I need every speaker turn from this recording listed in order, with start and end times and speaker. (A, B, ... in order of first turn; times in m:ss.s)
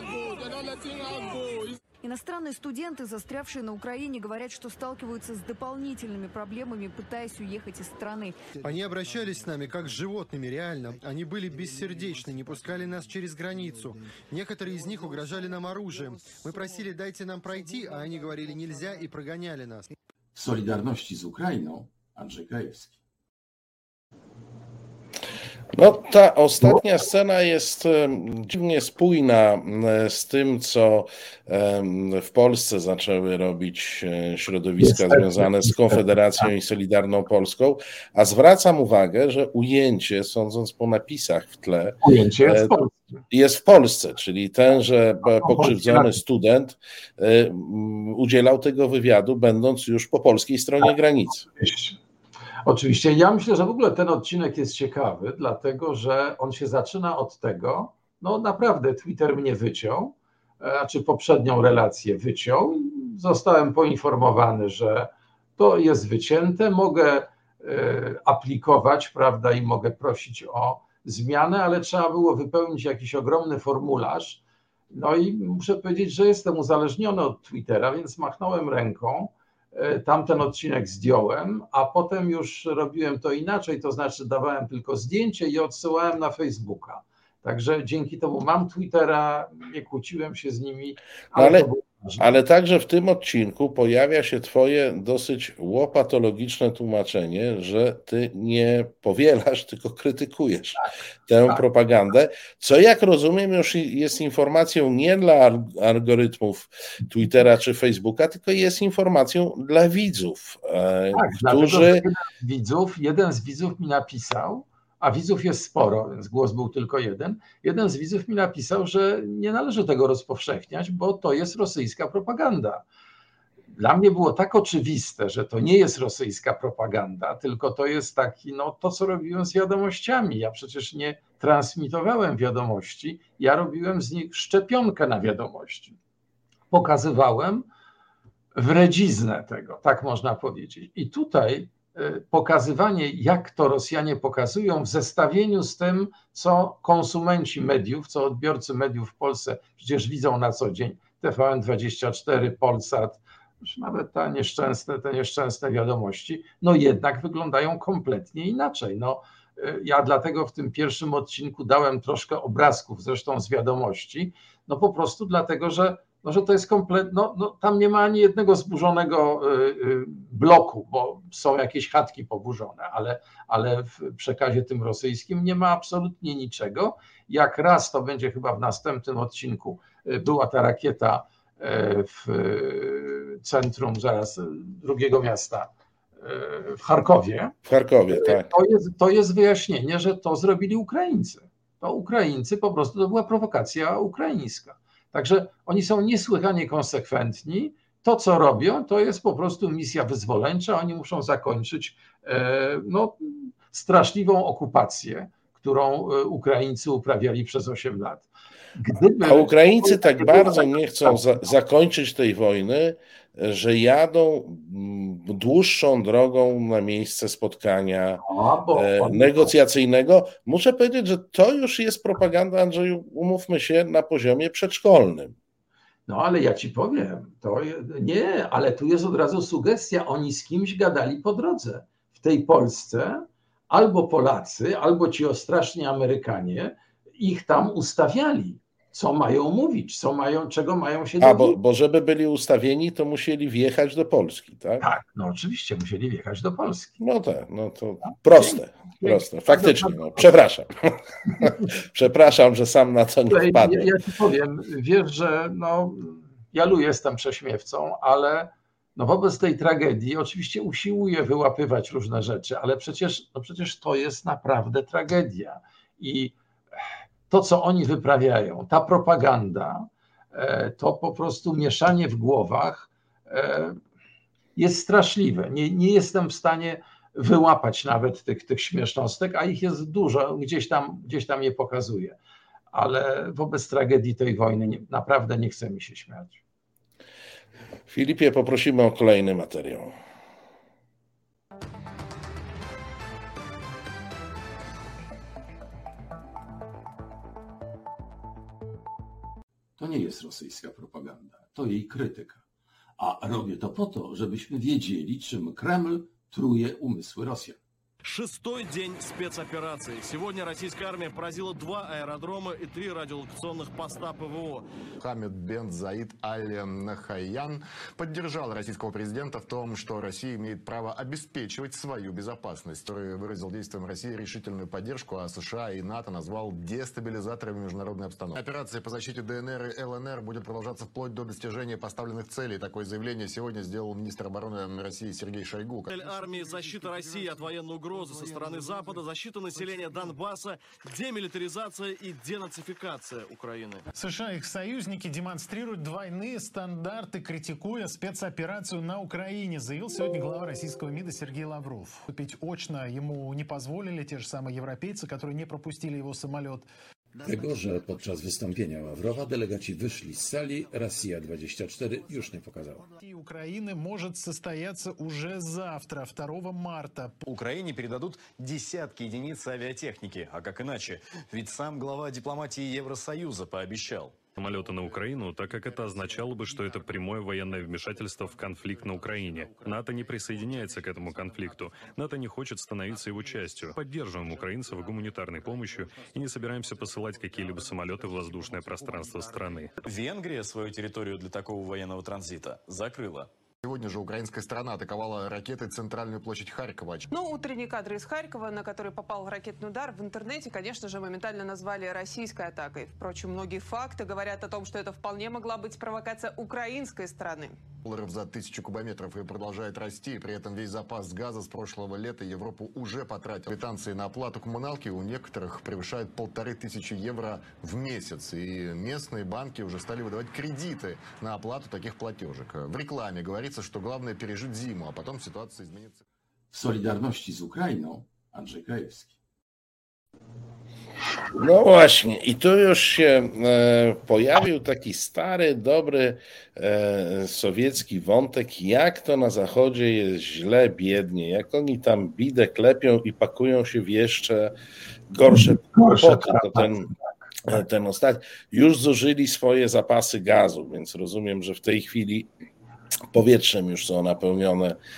0:02.0-0:08.4 A
0:08.6-0:19.9 B
0:20.4-0:23.0 C
0:25.7-0:42.7 D
0:34.8-0:36.5 E
0:42.0-0:43.0 E
0:43.3-0:51.4 D
0:45.2-0:46.2 E
0:51.6-0:52.0 E
0:52.6-1:32.4 E
1:31.4-1:31.7 D
1:32.2-1:52.0 D
1:51.1-2:02.8 E
2:03.7-2:16.0 E
2:16.7-2:17.6 E
2:18.6-3:05.7 E
3:06.2-3:07.6 E
3:07.6-3:08.5 D
3:08.1-3:31.2 E
3:29.2-3:45.3 D
3:38.2-3:39.5 E
3:46.1-4:01.6 E
4:01.2-4:04.8 D
4:04.8-4:06.9 E
4:07.0-4:10.7 D
4:08.3-4:10.3 E
4:11.4-4:13.9 D
4:13.3-4:26.3 E
4:27.3-4:33.8 E
4:34.6-4:42.2 E
4:42.7-4:46.4 E
4:47.9-4:49.9 D
4:59.8-5:02.4 C
5:03.0-5:07.6 C
5:08.0-5:14.6 F
5:15.0-5:35.9 G
5:35.9-5:43.8 F
5:43.9-5:56.6 H
5:57.2-6:02.9 C
6:03.0-6:07.2 H
6:07.3-6:14.1 I
6:14.4-6:29.7 J
6:29.9-6:30.4 I
6:31.3-6:33.2 I
6:33.6-6:37.1 G
6:37.1-6:47.6 K
6:47.8-7:06.0 G
7:06.5-7:09.1 C
7:11.4-7:24.5 D
7:25.1-7:26.9 D
7:25.3-7:27.6 E
7:27.4-7:32.3 D
7:33.1-7:34.8 D